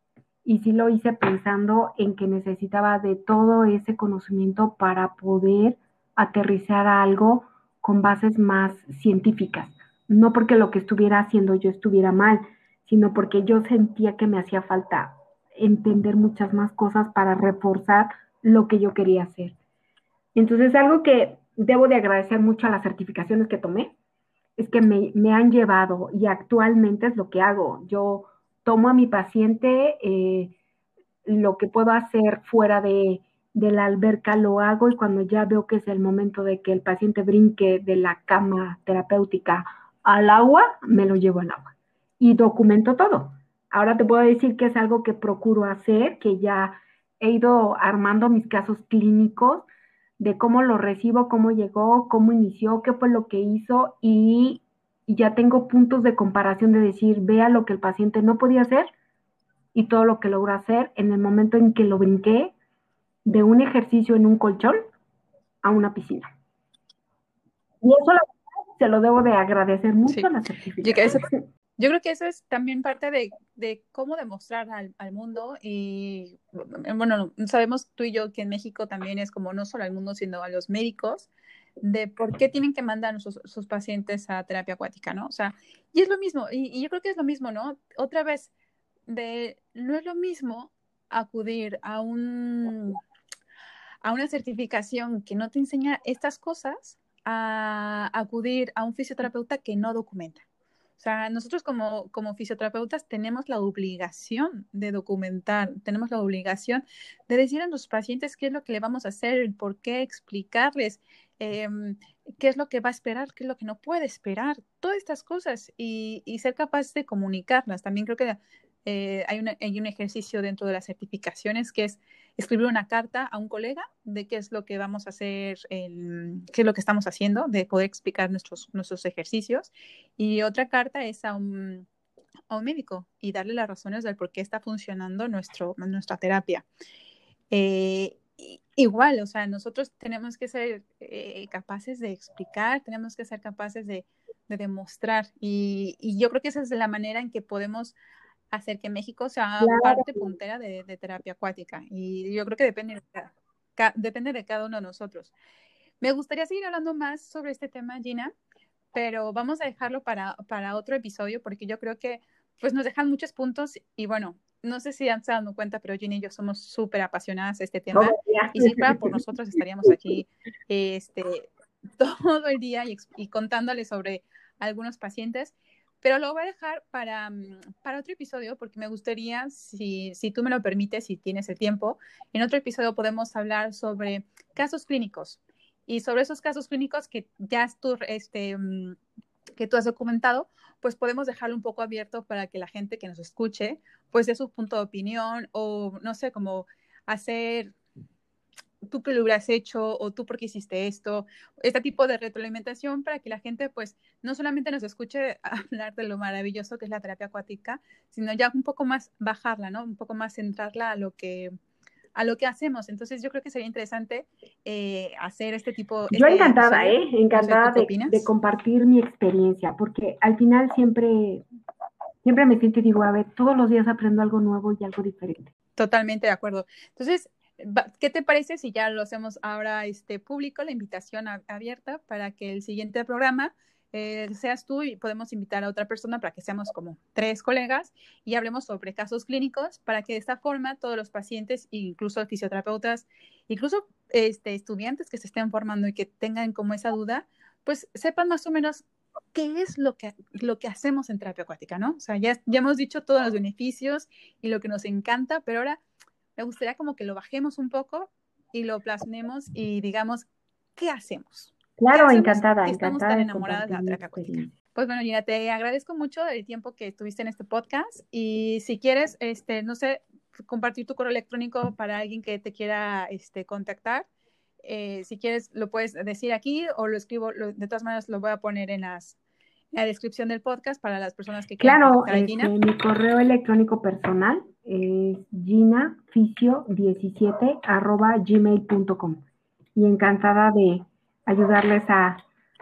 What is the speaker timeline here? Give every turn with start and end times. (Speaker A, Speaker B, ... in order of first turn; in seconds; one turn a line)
Speaker A: 0.4-19.5
Speaker A: 20.3-23.9
Speaker A: 24.6-30.5
Speaker A: 31.2-49.7
Speaker A: 50.2-58.9
Speaker A: 59.7-62.5
Speaker A: 63.2-64.8
Speaker A: 65.6-66.3
Speaker A: 67.8-71.3
Speaker B: 70.8-81.3
Speaker B: 81.8-88.5
Speaker B: 89.1-93.0
Speaker B: 94.0-100.4
Speaker B: 101.0-131.8
Speaker B: 132.5-136.7
Speaker B: 137.5-147.9
Speaker B: 148.5-155.3
Speaker A: 149.6-150.3
Speaker B: 156.0-158.3
Speaker B: 158.9-171.5
Speaker A: 167.9-169.2
Speaker B: 172.0-189.0
Speaker B: 189.6-197.7
Speaker B: 198.9-211.5
Speaker B: 212.2-218.3
Speaker A: 216.1-221.4
Speaker A: 222.2-225.5
Speaker B: 225.8-248.8
Speaker B: 249.3-255.8
Speaker B: 256.4-274.1
Speaker A: 261.8-264.5
Speaker B: 274.6-279.2
Speaker B: 279.7-282.5
Speaker A: 281.6-289.2
Speaker A: 289.7-292.2